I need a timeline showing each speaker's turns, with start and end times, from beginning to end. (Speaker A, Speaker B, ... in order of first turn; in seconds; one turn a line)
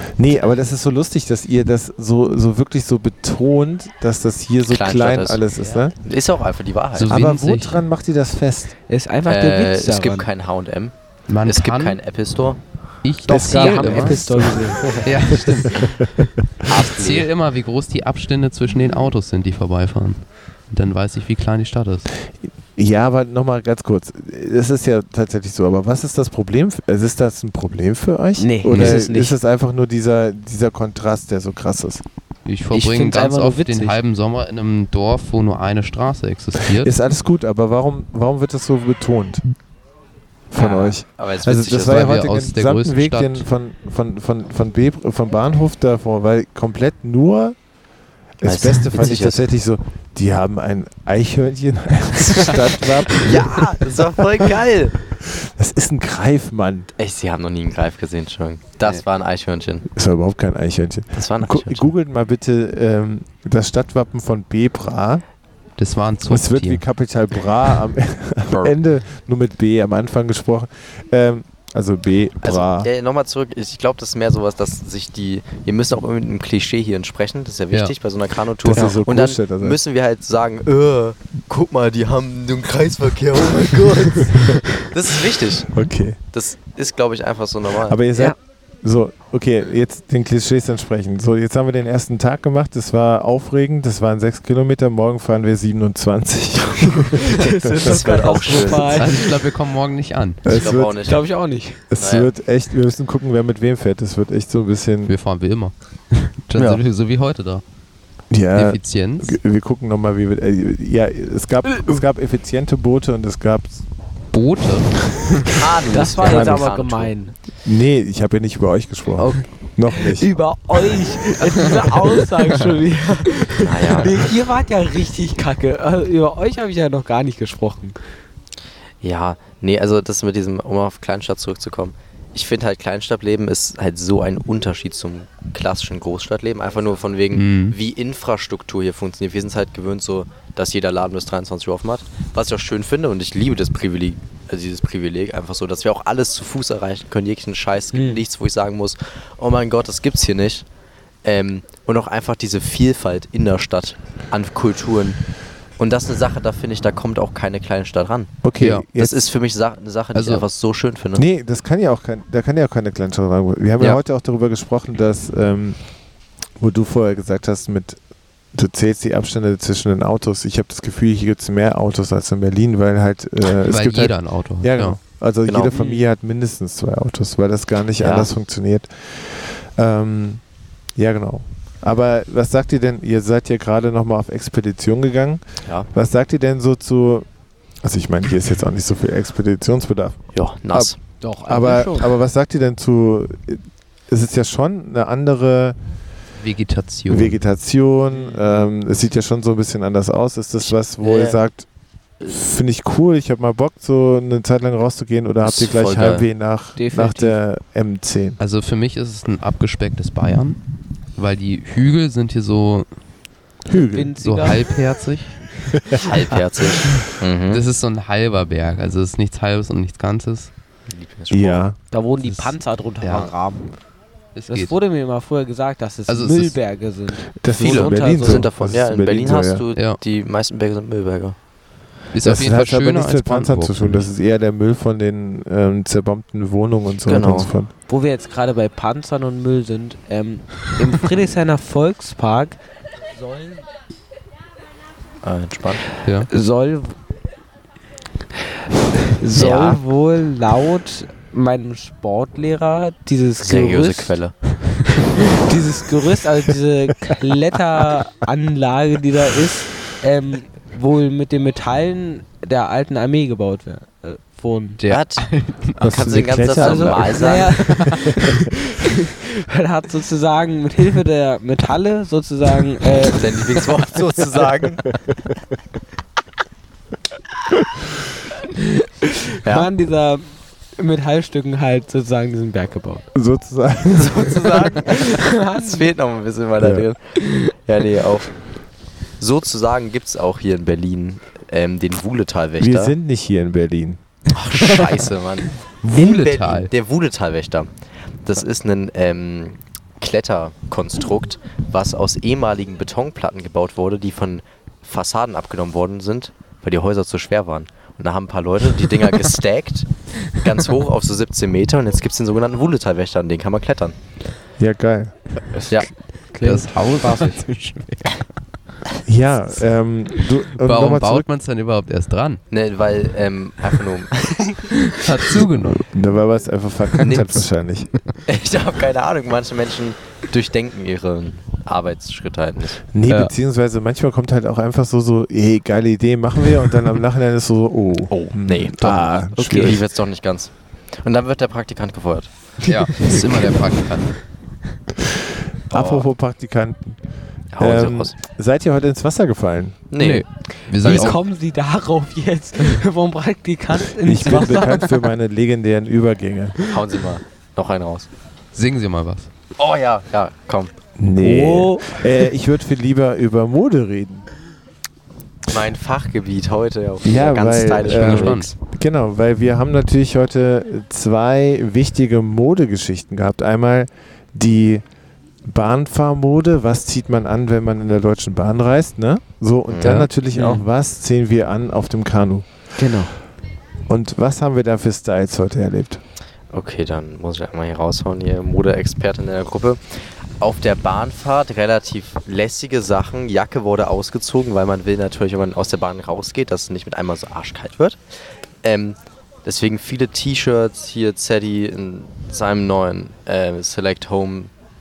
Speaker A: 0.2-5.9
Speaker B: 4.7-7.2
Speaker C: 6.9-7.8
Speaker A: 7.1-8.7
Speaker D: 8.9-10.3
Speaker B: 9.2-12.6
Speaker C: 11.3-12.0
Speaker C: 13.0-14.3
Speaker D: 13.3-15.0
Speaker A: 13.3-16.3
Speaker C: 15.0-16.1
Speaker B: 16.6-17.3
Speaker C: 16.7-22.1
Speaker A: 22.8-32.0
Speaker D: 28.4-29.3
Speaker C: 28.7-29.0
Speaker C: 32.5-36.9
Speaker D: 32.7-34.0
Speaker A: 36.7-39.4
Speaker A: 40.5-47.5
Speaker B: 40.5-42.1
Speaker C: 41.8-43.5
Speaker A: 48.4-54.5
Speaker B: 48.4-49.5
Speaker B: 53.1-54.9
Speaker A: 55.2-56.9
Speaker B: 57.0-59.9
Speaker A: 59.9-65.2
Speaker B: 61.1-61.9
Speaker C: 65.8-66.8
Speaker A: 66.2-72.9
Speaker B: 68.5-68.8
Speaker B: 72.4-85.7
Speaker A: 78.6-79.8
Speaker A: 85.7-86.2
Speaker B: 86.3-88.0
Speaker A: 87.9-98.1
Speaker D: 97.1-99.4
Speaker B: 97.7-99.1
Speaker C: 98.8-100.4
Speaker A: 100.4-101.0
Speaker B: 100.5-101.2
Speaker D: 101.0-101.8
Speaker A: 101.9-105.1
Speaker B: 102.0-102.3
Speaker C: 105.1-107.6
Speaker B: 106.5-106.8
Speaker A: 108.3-113.8
Speaker C: 108.5-109.4
Speaker C: 114.3-115.5
Speaker B: 115.5-117.1
Speaker D: 115.9-117.3
Speaker A: 116.2-116.7
Speaker A: 117.6-120.3
Speaker D: 119.9-128.0
Speaker B: 123.6-124.2
Speaker B: 129.0-150.7
Speaker C: 137.3-137.8
Speaker D: 147.9-148.2
Speaker B: 151.2-155.2
Speaker B: 155.8-158.4
Speaker A: 158.4-159.2
Speaker C: 158.6-158.9
Speaker B: 158.9-161.2
Speaker C: 160.1-160.4
Speaker A: 161.2-165.8
Speaker A: 166.6-168.0
Speaker A: 168.5-180.4
Speaker C: 173.6-175.0
Speaker B: 175.4-175.7
Speaker D: 175.7-176.0
Speaker B: 178.0-178.3
Speaker A: 180.9-187.2
Speaker A: 187.8-190.9
Speaker B: 190.3-191.0
Speaker D: 191.2-192.1
Speaker A: 191.4-195.8
Speaker C: 196.4-197.3
Speaker A: 197.1-201.7
Speaker D: 198.1-198.6
Speaker B: 201.0-201.4
Speaker A: 202.2-208.4
Speaker B: 205.4-206.3
Speaker D: 206.8-207.4
Speaker C: 208.4-210.6
Speaker C: 211.2-212.9
Speaker A: 213.7-214.2
Speaker D: 213.9-214.6
Speaker C: 214.2-215.4
Speaker A: 215.7-216.0
Speaker B: 215.9-217.6
Speaker C: 216.9-220.5
Speaker B: 220.9-221.6
Speaker A: 221.3-221.8
Speaker D: 221.9-223.7
Speaker C: 223.0-223.3
Speaker C: 224.3-224.7
Speaker D: 224.5-228.5
Speaker C: 226.1-226.6
Speaker A: 227.4-229.6
Speaker B: 227.6-231.3
Speaker C: 232.1-234.1
Speaker A: 232.2-237.7
Speaker B: 237.1-237.5
Speaker D: 237.9-242.6
Speaker D: 243.2-243.6
Speaker B: 245.2-245.8
Speaker C: 246.0-246.3
Speaker D: 246.3-246.9
Speaker D: 249.0-254.2
Speaker B: 249.3-249.8
Speaker B: 253.4-254.3
Speaker D: 255.1-265.6
Speaker B: 264.8-267.7
Speaker A: 265.8-267.3
Speaker D: 266.6-273.7
Speaker B: 273.1-274.8
Speaker D: 278.4-283.1
Speaker B: 279.4-279.7
Speaker A: 283.1-284.5
Speaker B: 283.9-288.4
Speaker D: 284.7-285.9
Speaker A: 286.6-286.9
Speaker B: 289.2-292.9
Speaker A: 292.6-294.0
Speaker B: 294.3-297.7
Speaker C: 295.8-296.7
Speaker B: 298.2-314.0
Speaker A: 314.6-315.1
Speaker D: 315.6-315.8
Speaker D: 316.3-317.5
Speaker C: 316.4-318.1
Speaker A: 319.0-321.3
Speaker C: 320.5-322.4
Speaker B: 322.5-324.7
Speaker C: 324.8-325.9
Speaker A: 325.8-327.9
Speaker B: 327.0-327.5
Speaker B: 328.2-332.8
Speaker A: 332.9-339.8
Speaker B: 338.1-342.3
Speaker C: 342.6-344.2
Speaker B: 345.7-346.1
Speaker A: 345.7-347.0
Speaker B: 347.5-348.1
Speaker A: 347.6-349.8
Speaker B: 349.9-351.2
Speaker C: 350.0-351.2
Speaker D: 350.8-355.1
Speaker A: 354.0-356.6
Speaker B: 356.7-358.1
Speaker C: 358.5-359.3
Speaker B: 359.6-360.7
Speaker A: 361.0-364.3
Speaker D: 361.2-362.1
Speaker B: 365.5-368.5
Speaker A: 367.0-374.8
Speaker C: 367.8-368.5
Speaker A: 375.4-382.4
Speaker B: 379.7-380.1
Speaker C: 379.8-380.1
Speaker D: 380.3-380.6
Speaker D: 382.8-383.1
Speaker A: 383.9-386.0
Speaker B: 386.5-398.0
Speaker B: 398.6-404.5